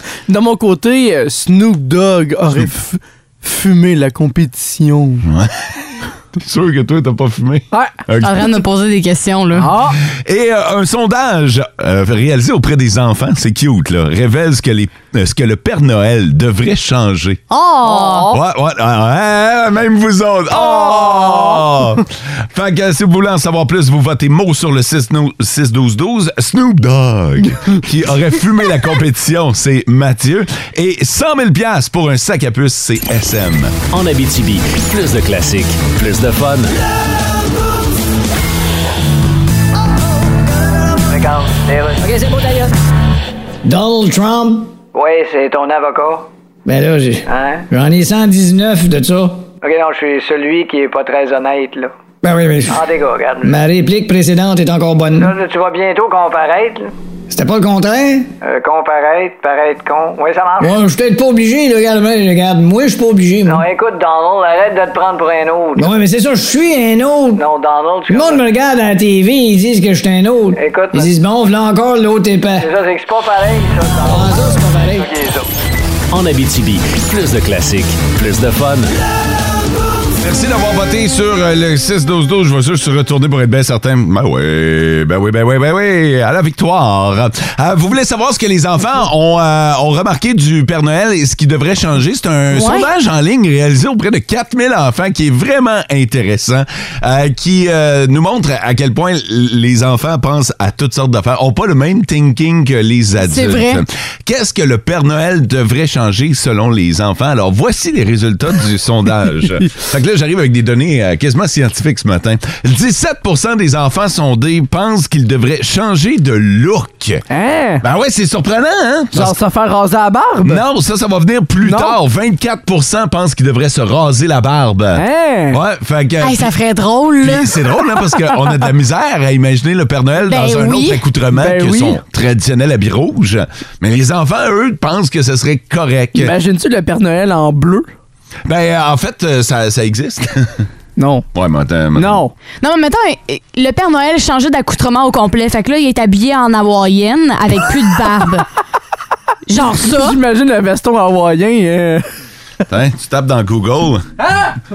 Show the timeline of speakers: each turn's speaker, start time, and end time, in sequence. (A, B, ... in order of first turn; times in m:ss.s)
0:00.3-0:05.3 A
0:05.2-0:05.6 B
0:06.4-0:08.5 B
0:08.2-0:09.7 C
0:09.6-0:10.0 A
0:10.0-0:17.4 B
0:17.5-0:18.3 C
0:17.9-0:18.3 A
0:18.3-0:33.8 B
0:20.7-0:21.6 A
0:33.9-0:36.8 D
0:41.1-0:42.7 E
0:43.6-0:44.7 F
0:44.9-0:46.3 E
0:46.7-0:49.5 F
0:47.3-0:47.7 E
0:49.6-0:52.0 E
0:52.2-0:52.8 F
0:52.7-0:53.6 E
0:53.4-0:55.3 F
0:55.2-0:56.9 E
0:57.3-0:58.3 F
0:58.4-1:00.8 E
1:00.6-1:03.6 F
1:03.4-1:05.9 E
1:05.8-1:07.4 F
1:07.4-1:08.4 E
1:08.1-1:12.7 F
1:10.5-1:11.2 E
1:12.6-1:15.5 E
1:14.0-1:15.1 F
1:16.1-1:18.9 D
1:20.2-1:57.2 B
1:32.5-1:32.9 C
1:43.2-1:43.8 C
1:57.3-1:57.8 A
1:57.8-1:59.4 B
1:59.1-2:00.6 A
2:00.4-2:06.5 B
2:01.6-2:02.0 A
2:05.0-2:05.6 A
2:06.2-2:07.5 C
2:07.2-2:16.4 B
2:10.3-2:11.0 C
2:11.4-2:12.0 A
2:16.2-2:17.9 A
2:18.5-2:20.7 B
2:21.0-2:21.3 A
2:21.3-2:22.2 B
2:22.0-2:22.3 A
2:22.6-2:28.5 C
2:29.5-2:30.2 C
2:29.8-2:32.1 A
2:32.7-2:34.1 B